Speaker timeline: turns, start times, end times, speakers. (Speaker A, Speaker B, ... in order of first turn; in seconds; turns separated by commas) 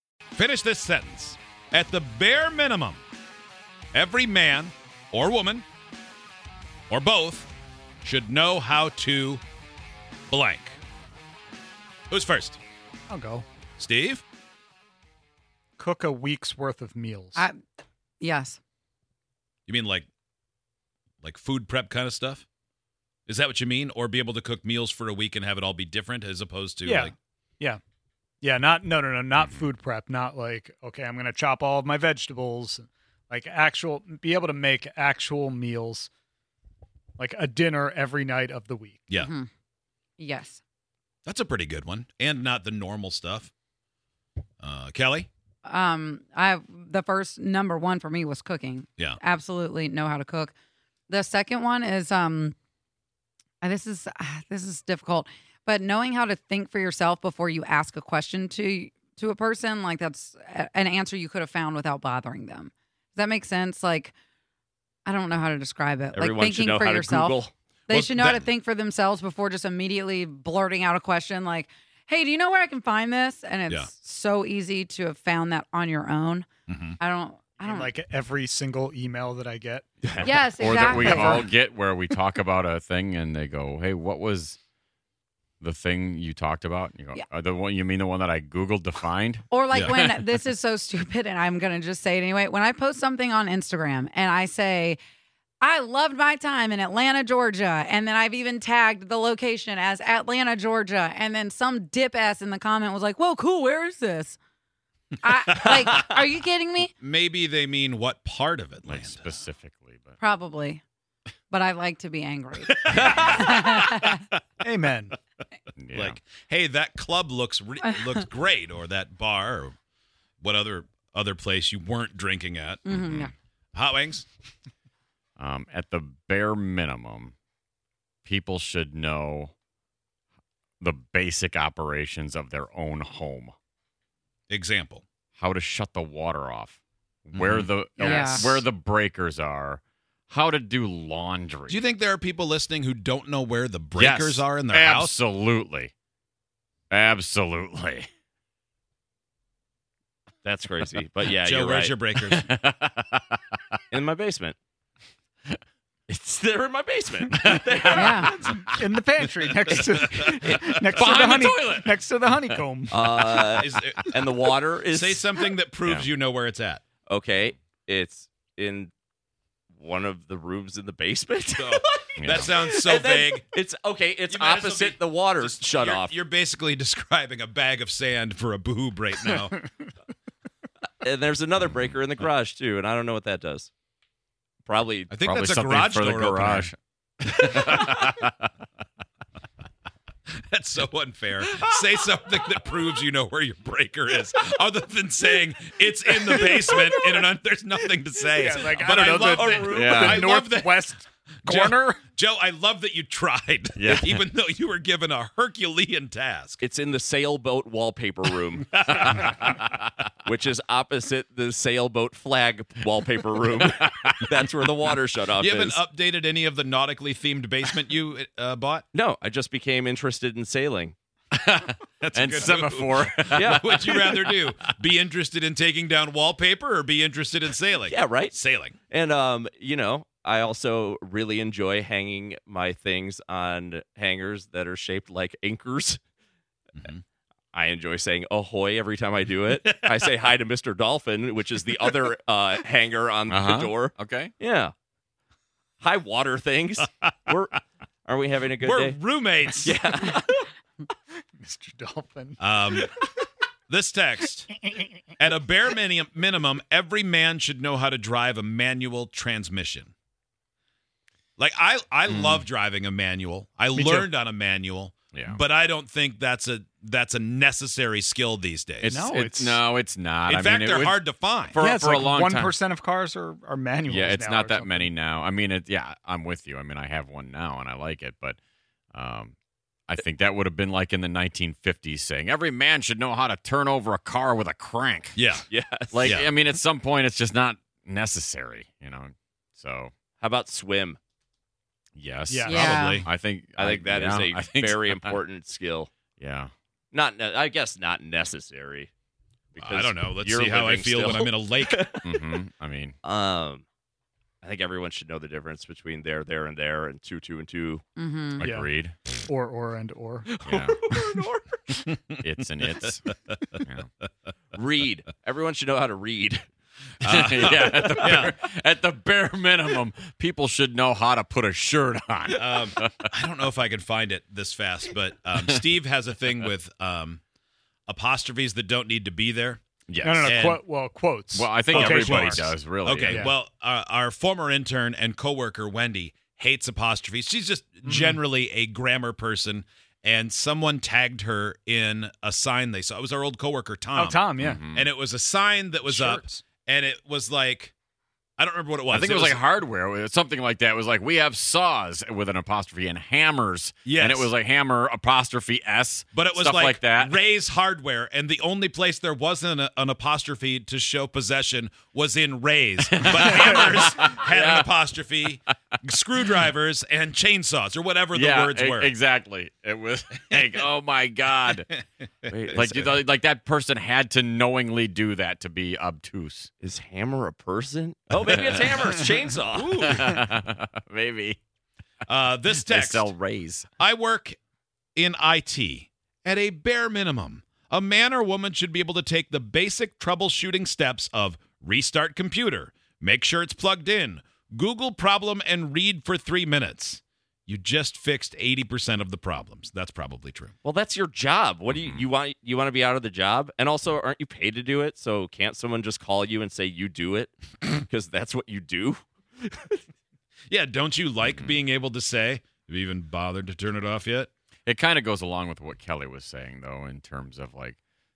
Speaker A: 0.3-3.0, Speaker A: 3.9-5.6, Speaker A: 6.9-7.5, Speaker A: 8.0-9.4, Speaker A: 10.3-10.8, Speaker A: 12.1-12.6, Speaker B: 13.1-13.4, Speaker A: 13.8-14.2, Speaker B: 15.8-17.4, Speaker C: 18.2-18.6, Speaker A: 19.7-20.1, Speaker A: 21.2-22.4, Speaker A: 23.3-27.1, Speaker B: 26.8-27.8, Speaker B: 28.4-36.1, Speaker B: 37.2-39.1, Speaker C: 39.1-39.5, Speaker C: 40.2-40.6, Speaker A: 41.2-43.5, Speaker A: 44.6-45.3, Speaker C: 45.6-50.5, Speaker C: 51.1-52.5, Speaker C: 53.6-64.1, Speaker C: 65.0-76.5, Speaker D: 66.1-67.5, Speaker A: 67.9-68.4, Speaker A: 76.7-77.0, Speaker C: 77.0-77.9, Speaker B: 77.6-80.2, Speaker E: 80.2-84.6, Speaker C: 80.2-81.4, Speaker B: 80.9-81.5, Speaker E: 85.6-89.4, Speaker C: 89.5-95.0, Speaker E: 90.0-90.3, Speaker C: 95.6-104.4, Speaker C: 105.2-106.9, Speaker A: 107.0-109.3, Speaker E: 108.9-110.1, Speaker C: 110.2-110.8, Speaker C: 111.5-114.2, Speaker A: 112.7-114.1, Speaker B: 114.6-115.2, Speaker E: 115.8-116.2, Speaker A: 115.9-119.8, Speaker C: 117.8-118.2, Speaker A: 120.4-124.2, Speaker C: 122.8-123.3, Speaker E: 125.4-127.3, Speaker E: 128.2-129.5, Speaker E: 130.8-133.5, Speaker A: 134.5-135.0, Speaker E: 135.4-141.8, Speaker A: 137.3-137.7, Speaker C: 138.0-138.6, Speaker A: 141.7-145.2, Speaker E: 143.9-145.9, Speaker E: 146.9-148.1, Speaker D: 150.4-151.9, Speaker A: 151.4-152.4, Speaker E: 152.2-153.4, Speaker D: 153.9-154.6, Speaker D: 156.3-158.7, Speaker E: 157.3-158.7, Speaker C: 157.9-158.3, Speaker B: 158.8-163.0, Speaker A: 159.4-160.5, Speaker E: 160.9-163.6, Speaker D: 162.9-165.2, Speaker A: 163.6-164.1, Speaker A: 164.9-166.8, Speaker D: 167.1-168.9, Speaker D: 169.8-176.2, Speaker A: 171.6-173.4, Speaker E: 172.2-172.5, Speaker A: 174.3-179.6, Speaker D: 181.0-183.7, Speaker E: 181.6-181.9, Speaker D: 184.6-185.1, Speaker A: 185.1-186.7, Speaker E: 185.2-188.5, Speaker A: 187.4-188.0, Speaker A: 190.5-200.8, Speaker B: 198.3-202.1, Speaker D: 198.5-200.1, Speaker E: 199.7-200.3, Speaker A: 201.4-206.6, Speaker E: 203.8-204.2, Speaker D: 206.6-208.7, Speaker A: 208.7-209.6, Speaker D: 210.2-215.8, Speaker E: 213.6-214.4, Speaker A: 215.4-218.8, Speaker D: 218.9-220.9, Speaker E: 221.3-224.3, Speaker A: 222.0-228.8, Speaker D: 223.3-224.3, Speaker D: 227.9-228.3, Speaker D: 228.9-236.0, Speaker D: 237.5-244.7, Speaker A: 239.6-240.1, Speaker E: 243.3-244.3, Speaker D: 245.8-249.0, Speaker A: 248.6-249.7, Speaker D: 249.6-250.5, Speaker B: 251.4-252.5, Speaker A: 252.4-252.9, Speaker D: 252.7-253.0, Speaker A: 253.7-254.5, Speaker B: 254.5-255.0, Speaker A: 255.2-259.9, Speaker A: 261.4-269.0, Speaker E: 262.1-262.4, Speaker B: 263.7-264.1, Speaker E: 265.1-265.4, Speaker E: 268.8-271.0, Speaker B: 268.8-269.6, Speaker A: 270.3-271.6, Speaker E: 271.5-272.5, Speaker B: 271.6-274.9, Speaker E: 273.9-278.4, Speaker E: 278.9-279.3, Speaker E: 279.9-285.2, Speaker A: 285.1-285.4, Speaker D: 285.5-286.2, Speaker E: 285.9-289.9, Speaker D: 290.2-291.0, Speaker E: 291.9-295.2, Speaker B: 292.3-292.6, Speaker C: 292.4-293.0, Speaker A: 292.5-293.1, Speaker D: 293.6-295.9, Speaker E: 296.2-296.5, Speaker D: 296.9-298.9, Speaker D: 299.5-302.1, Speaker A: 299.6-301.8, Speaker E: 302.0-302.9, Speaker D: 303.0-303.6, Speaker D: 304.4-307.8, Speaker C: 308.0-308.4, Speaker E: 308.4-309.0, Speaker B: 308.4-308.7, Speaker B: 309.3-310.4, Speaker D: 310.3-311.8, Speaker E: 310.4-310.8, Speaker A: 311.9-312.2, Speaker E: 312.2-313.0, Speaker E: 313.6-313.9, Speaker D: 314.5-316.5, Speaker E: 317.0-323.0, Speaker A: 317.0-318.3, Speaker D: 317.8-318.2, Speaker A: 322.3-327.2, Speaker E: 325.4-325.6, Speaker A: 327.9-329.6, Speaker E: 329.9-330.3, Speaker B: 330.0-332.5, Speaker A: 330.2-330.6, Speaker E: 331.3-333.3, Speaker A: 331.7-347.7, Speaker B: 333.1-333.3, Speaker B: 337.8-338.2, Speaker B: 343.9-344.6, Speaker E: 344.4-344.9, Speaker B: 345.9-346.3, Speaker A: 348.4-349.4, Speaker E: 348.9-357.2, Speaker A: 353.8-354.3, Speaker A: 356.1-368.9, Speaker E: 362.8-364.7, Speaker E: 368.1-371.7, Speaker D: 372.3-373.0, Speaker E: 372.5-376.5, Speaker D: 376.6-379.8, Speaker E: 378.3-379.0, Speaker A: 379.6-380.1, Speaker E: 379.7-381.4, Speaker A: 382.1-383.1, Speaker E: 382.5-383.7, Speaker A: 383.8-384.4, Speaker A: 384.9-400.5, Speaker D: 400.6-409.8, Speaker E: 401.7-402.0, Speaker A: 410.5-414.3, Speaker E: 414.6-417.8